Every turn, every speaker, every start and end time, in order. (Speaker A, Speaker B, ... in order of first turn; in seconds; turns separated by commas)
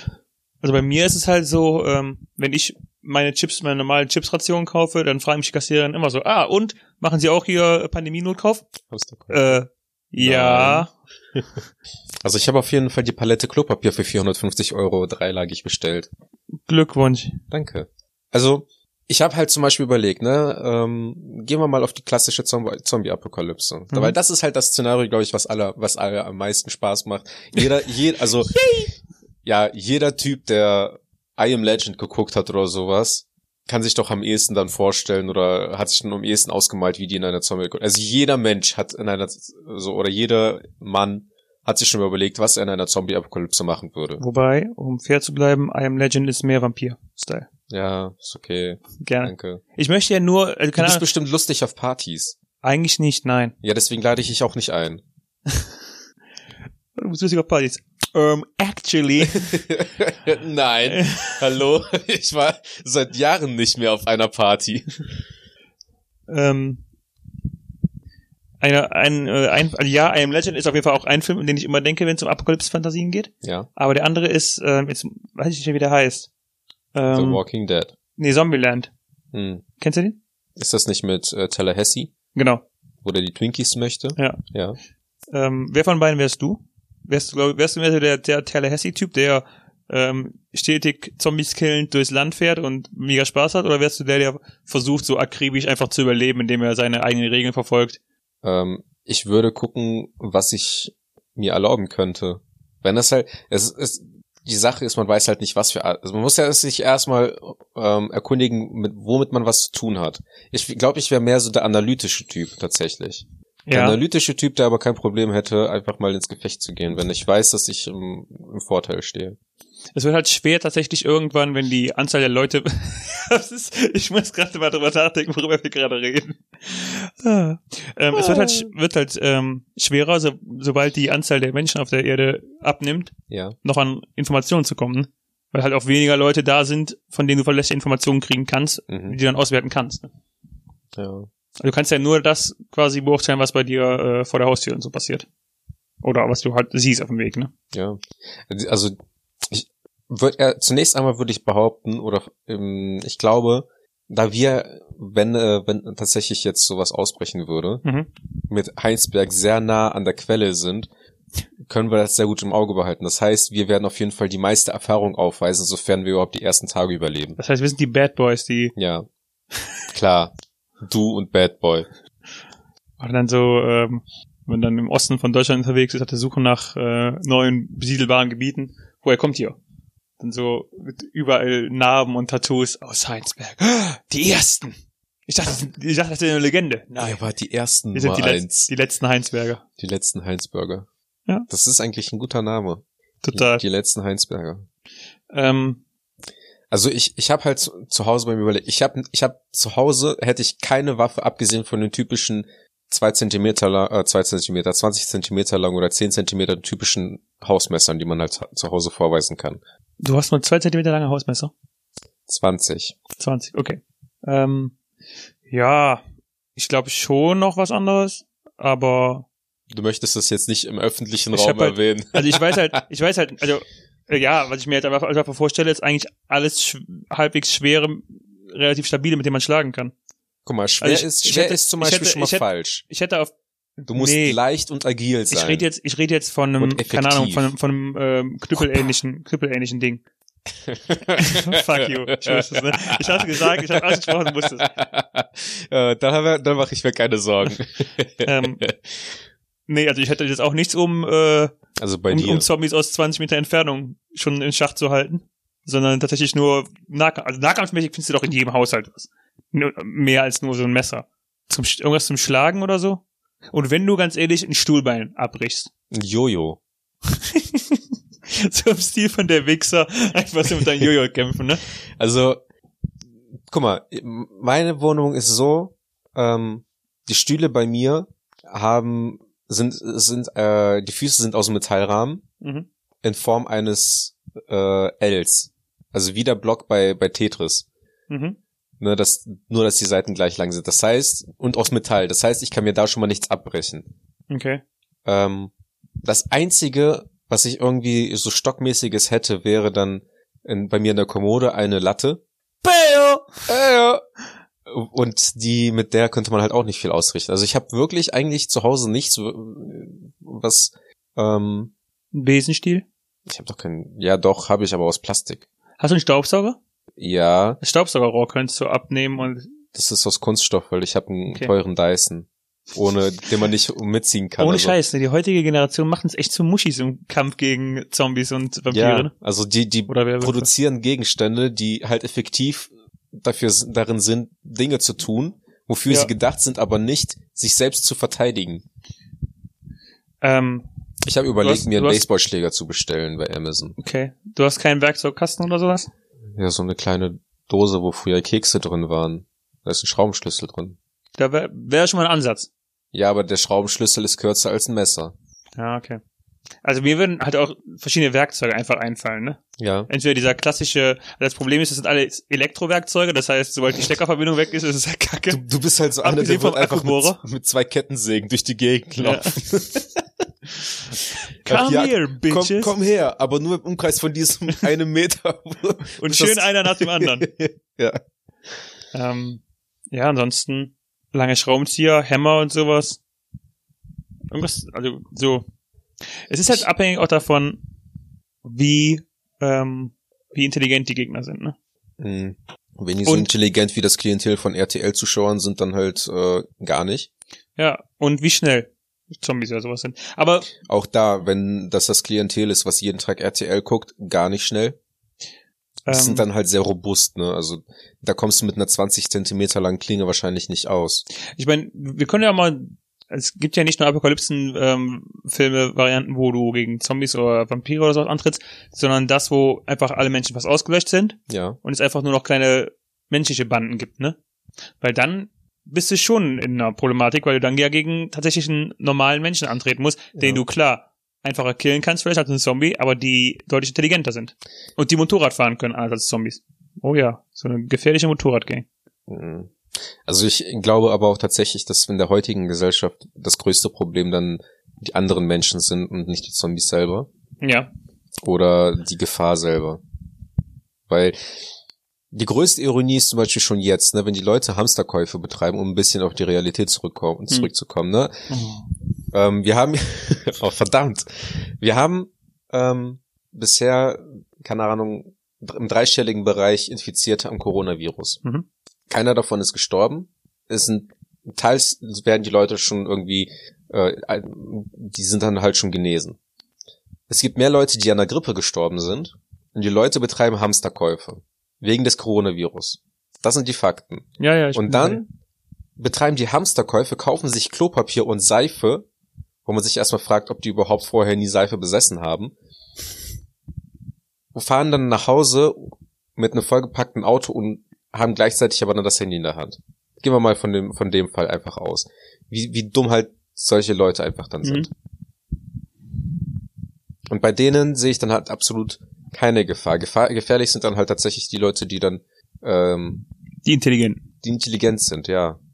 Speaker A: 0.6-8.7, Speaker B: 8.9-9.6, Speaker A: 9.3-10.9, Speaker B: 10.2-11.4, Speaker B: 12.2-16.1, Speaker A: 16.7-17.4, Speaker B: 17.5-28.6, Speaker B: 29.4-44.2, Speaker A: 44.2-47.5, Speaker B: 47.7-49.6, Speaker A: 49.0-51.0, Speaker B: 50.8-52.4, Speaker A: 52.6-53.5, Speaker B: 53.6-55.0, Speaker A: 57.0-59.6, Speaker B: 59.3-64.9, Speaker A: 60.9-61.4, Speaker A: 66.3-66.8, Speaker A: 68.6-76.3, Speaker B: 73.4-73.7, Speaker A: 76.9-77.4, Speaker B: 77.1-77.9, Speaker A: 78.2-78.9, Speaker B: 79.3-79.6, Speaker A: 79.8-80.2, Speaker B: 80.6-82.1, Speaker A: 82.3-82.6, Speaker B: 83.0-84.8, Speaker A: 85.3-98.0, Speaker B: 98.4-119.4, Speaker A: 113.7-114.0, Speaker A: 119.9-140.1, Speaker B: 128.2-128.6, Speaker B: 133.3-133.6, Speaker B: 138.9-139.2, Speaker B: 141.0-141.3, Speaker A: 141.6-145.3, Speaker A: 146.0-147.5, Speaker B: 147.7-149.0, Speaker B: 149.5-157.8, Speaker A: 157.8-158.1, Speaker B: 158.5-160.9, Speaker B: 161.7-167.4, Speaker A: 167.4-168.7, Speaker B: 168.8-169.1, Speaker B: 169.9-171.9, Speaker A: 173.0-179.6, Speaker A: 180.2-184.8, Speaker A: 185.3-187.2, Speaker B: 187.0-188.7, Speaker A: 187.9-189.6, Speaker B: 189.8-190.9, Speaker B: 191.5-194.7, Speaker A: 193.2-193.6, Speaker A: 195.3-195.8, Speaker B: 196.7-209.6, Speaker A: 210.0-211.5, Speaker B: 212.3-213.0, Speaker A: 213.2-214.8, Speaker A: 215.5-216.0, Speaker A: 216.6-219.3, Speaker B: 219.7-222.8, Speaker A: 221.3-229.9, Speaker B: 230.4-232.8, Speaker A: 230.8-234.4, Speaker B: 233.9-235.7, Speaker A: 235.3-240.0, Speaker B: 236.6-237.5, Speaker B: 240.7-249.1, Speaker A: 241.2-244.7, Speaker A: 248.2-248.6, Speaker A: 249.7-251.5, Speaker B: 251.8-252.5, Speaker A: 252.1-265.7, Speaker B: 265.9-266.6, Speaker A: 267.1-271.6, Speaker B: 272.0-272.4, Speaker B: 273.5-282.2, Speaker A: 282.4-282.7, Speaker B: 283.0-287.7, Speaker A: 288.1-288.4, Speaker B: 288.8-293.9, Speaker A: 294.3-294.6, Speaker B: 295.1-295.5, Speaker B: 296.0-302.2, Speaker A: 302.6-303.4, Speaker B: 303.5-304.0, Speaker B: 304.7-311.7, Speaker A: 312.1-312.9, Speaker B: 313.3-315.5, Speaker A: 315.8-316.6, Speaker B: 317.0-317.6, Speaker A: 317.6-319.5, Speaker B: 319.7-324.8, Speaker A: 324.4-329.1, Speaker B: 328.7-338.6, Speaker A: 329.9-330.5, Speaker A: 340.2-340.7, Speaker B: 341.0-343.8, Speaker A: 341.4-342.1, Speaker A: 343.8-345.9, Speaker B: 346.4-350.8, Speaker A: 351.2-352.5, Speaker B: 352.9-355.1, Speaker A: 355.6-356.0, Speaker A: 356.6-365.4, Speaker B: 359.6-359.9, Speaker B: 365.3-370.0, Speaker A: 366.0-367.2, Speaker A: 369.0-369.4, Speaker A: 371.4-372.7, Speaker B: 371.4-378.0, Speaker A: 376.0-377.3, Speaker A: 378.9-383.0, Speaker A: 384.3-385.5, Speaker A: 386.3-387.6, Speaker A: 388.4-391.6, Speaker B: 392.0-397.1, Speaker A: 397.6-400.5, Speaker B: 400.6-404.8, Speaker A: 405.9-406.3, Speaker B: 405.9-411.1, Speaker A: 411.4-424.2, Speaker B: 421.3-421.6, Speaker A: 424.8-438.7, Speaker B: 430.2-430.4, Speaker B: 439.1-439.5, Speaker B: 440.1-447.1, Speaker A: 447.4-447.7, Speaker B: 448.2-449.8, Speaker B: 450.9-451.2, Speaker B: 452.1-458.3, Speaker A: 458.3-458.6, Speaker B: 459.1-468.2, Speaker B: 468.9-476.2, Speaker B: 477.1-485.0, Speaker A: 484.2-485.0, Speaker B: 485.8-488.9, Speaker B: 489.4-492.3, Speaker B: 494.4-504.7, Speaker A: 504.4-504.7, Speaker B: 507.1-513.0, Speaker A: 513.4-514.0, Speaker B: 514.2-515.4